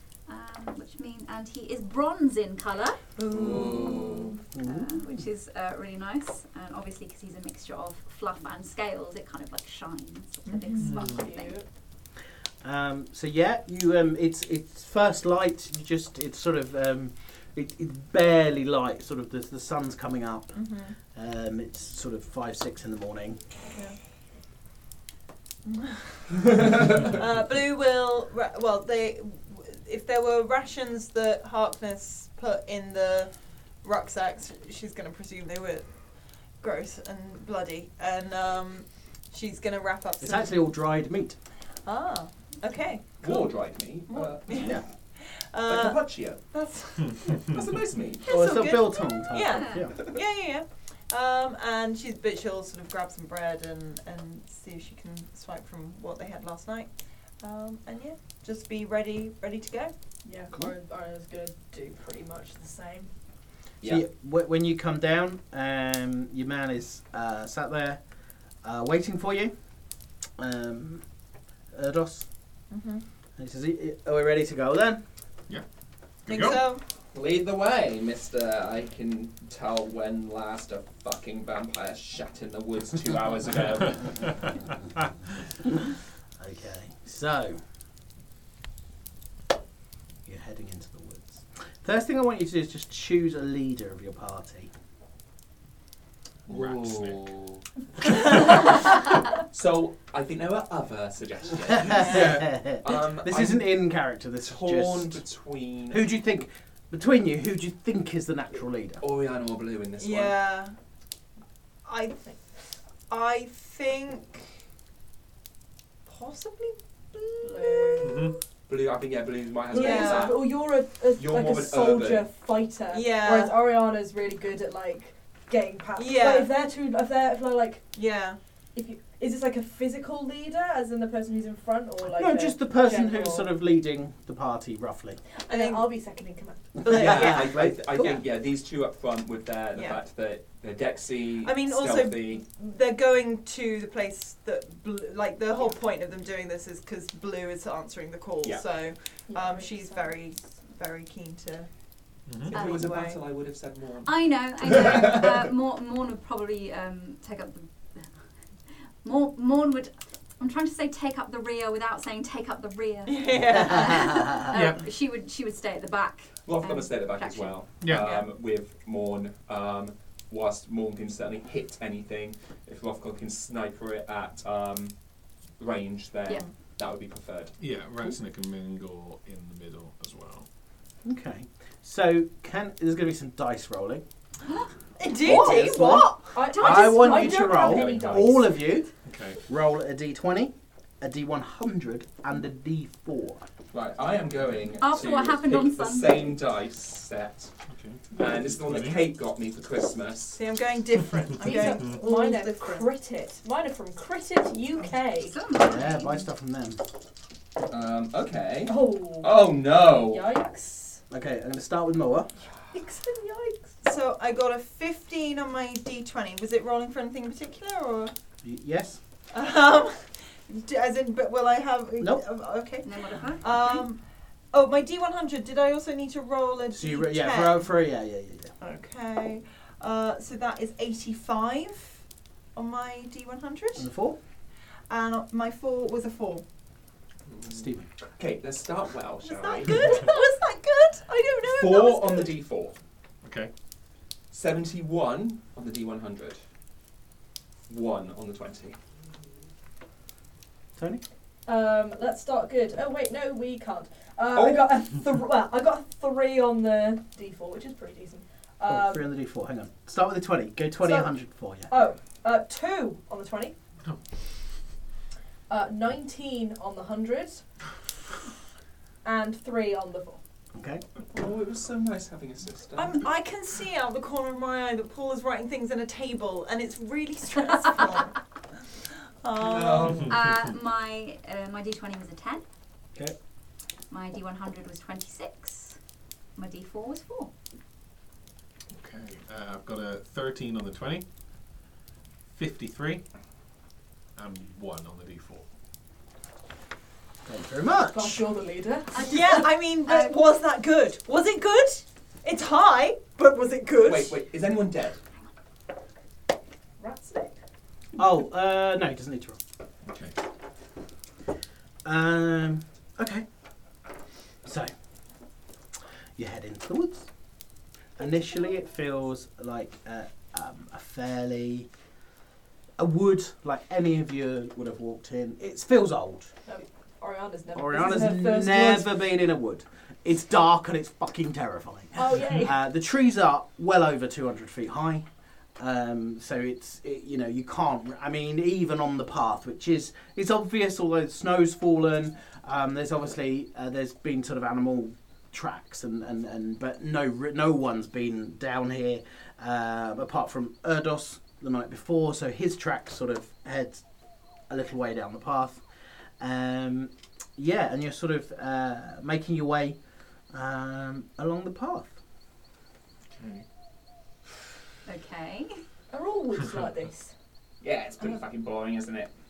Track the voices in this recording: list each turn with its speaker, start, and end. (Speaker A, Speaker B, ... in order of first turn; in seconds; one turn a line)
Speaker A: 0.3-3.0
Speaker B: 3.2-4.4
Speaker C: 3.3-4.3
Speaker D: 4.5-5.0
Speaker A: 4.6-11.5
Speaker B: 10.5-10.9
Speaker E: 10.8-11.1
Speaker F: 10.8-11.6
Speaker D: 12.6-20.6
Speaker B: 20.5-20.9
Speaker D: 21.1-23.4
Speaker B: 25.6-40.5
Speaker D: 40.2-41.4
Speaker B: 41.8-43.5
Speaker C: 43.2-44.8
Speaker B: 44.1-47.5
Speaker D: 44.6-44.8
Speaker C: 45.6-46.4
Speaker C: 47.4-48.3
Speaker B: 48.2-59.9
Speaker D: 48.3-50.0
Speaker A: 49.5-49.9
Speaker F: 60.2-63.1
Speaker D: 63.8-68.0
Speaker D: 68.6-69.5
Speaker D: 70.4-71.0
Speaker D: 71.7-72.3
Speaker B: 72.7-73.0
Speaker D: 73.4-75.0
Speaker E: 76.2-76.7
Speaker B: 76.3-76.8
Speaker C: 77.1-84.4
Speaker D: 86.4-87.6
Speaker D: 90.2-94.7
Speaker E: 96.5-97.2
Speaker C: 96.5-97.6
Speaker C: 98.2-103.7
Speaker D: 101.7-105.2
Speaker B: 102.0-102.3
Speaker C: 104.4-106.0
Speaker D: 105.9-109.0
Speaker C: 109.0-110.4
Speaker B: 110.0-110.7
Speaker B: 111.8-112.2
Speaker B: 113.1-114.5
Speaker B: 116.0-118.3
Speaker F: 117.4-118.3
Speaker E: 118.0-118.3
Speaker C: 118.7-120.6
Speaker F: 119.7-127.9
Speaker B: 119.7-120.4
Speaker C: 121.1-122.3
Speaker B: 122.9-123.5
Speaker B: 126.0-126.5
Speaker B: 127.9-128.4
Speaker F: 128.7-133.5
Speaker D: 132.1-135.2
Speaker F: 135.4-136.8
Speaker B: 135.5-135.9
Speaker B: 136.8-138.2
Speaker D: 136.8-138.1
Speaker C: 136.9-142.4
Speaker B: 139.7-140.0
Speaker B: 141.4-151.7
Speaker F: 149.3-150.2
Speaker E: 152.3-152.5
Speaker B: 152.5-153.2
Speaker C: 152.5-155.3
Speaker A: 154.0-158.1
Speaker A: 159.0-167.6
Speaker B: 163.1-164.3
Speaker E: 164.5-164.8
Speaker C: 166.4-174.9
Speaker E: 167.8-168.2
Speaker C: 175.6-177.6
Speaker E: 177.6-180.4
Speaker D: 181.0-184.0
Speaker B: 185.0-186.3
Speaker D: 185.2-188.9
Speaker C: 185.3-185.6
Speaker F: 186.3-188.6
Speaker A: 186.6-187.1
Speaker C: 187.5-188.3
Speaker E: 189.0-189.4
Speaker D: 189.5-193.4
Speaker C: 193.7-197.5
Speaker A: 194.8-196.4
Speaker E: 197.7-199.0
Speaker C: 198.2-200.4
Speaker B: 200.3-202.9
Speaker F: 201.4-205.3
Speaker A: 205.2-206.3
Speaker D: 205.5-206.8
Speaker C: 207.7-210.3
Speaker F: 208.7-211.0
Speaker D: 211.1-212.3
Speaker F: 212.7-213.8
Speaker B: 213.8-218.1
Speaker D: 218.4-219.0
Speaker B: 219.3-224.0
Speaker A: 222.8-223.8
Speaker B: 224.5-227.7
Speaker D: 226.7-228.5
Speaker B: 228.6-232.0
Speaker B: 232.5-233.9
Speaker D: 233.8-234.2
Speaker B: 234.9-236.4
Speaker C: 237.3-237.6
Speaker D: 237.5-237.9
Speaker C: 238.2-240.1
Speaker B: 239.2-242.3
Speaker C: 241.4-242.8
Speaker E: 243.2-243.5
Speaker C: 244.3-246.4
Speaker C: 247.7-248.8
Speaker D: 250.8-251.0
Speaker F: 251.5-259.0
Speaker C: 254.3-254.7
Speaker D: 258.6-261.7
Speaker F: 260.8-261.1
Speaker F: 261.7-263.5
Speaker F: 265.5-267.4
Speaker F: 269.0-270.2
Speaker D: 270.5-270.8
Speaker C: 271.1-273.0
Speaker B: 272.8-278.6
Speaker B: 279.2-280.1
Speaker C: 279.4-280.1
Speaker A: 280.0-282.4
Speaker A: 283.9-285.8
Speaker A: 286.4-287.3
Speaker E: 288.7-291.0
Speaker E: 292.3-293.0
Speaker E: 294.1-295.4
Speaker D: 297.2-298.2
Speaker F: 297.8-299.4
Speaker B: 299.0-304.2
Speaker A: 299.9-300.1
Speaker C: 303.8-305.0
Speaker F: 306.8-307.4
Speaker D: 308.0-309.4
Speaker E: 309.9-310.1
Speaker D: 311.8-313.2
Speaker D: 314.4-314.7
Speaker D: 316.2-317.1
Speaker D: 318.0-321.7
Speaker D: 322.8-326.3
Speaker F: 326.5-328.9
Speaker D: 327.5-335.1
Speaker F: 331.9-332.6
Speaker D: 335.6-353.8
Speaker D: 354.5-355.6
Speaker D: 356.2-359.8
Speaker D: 360.3-361.9
Speaker E: 363.1-363.4
Speaker A: 364.9-365.6
Speaker F: 365.9-367.1
Speaker C: 367.6-369.1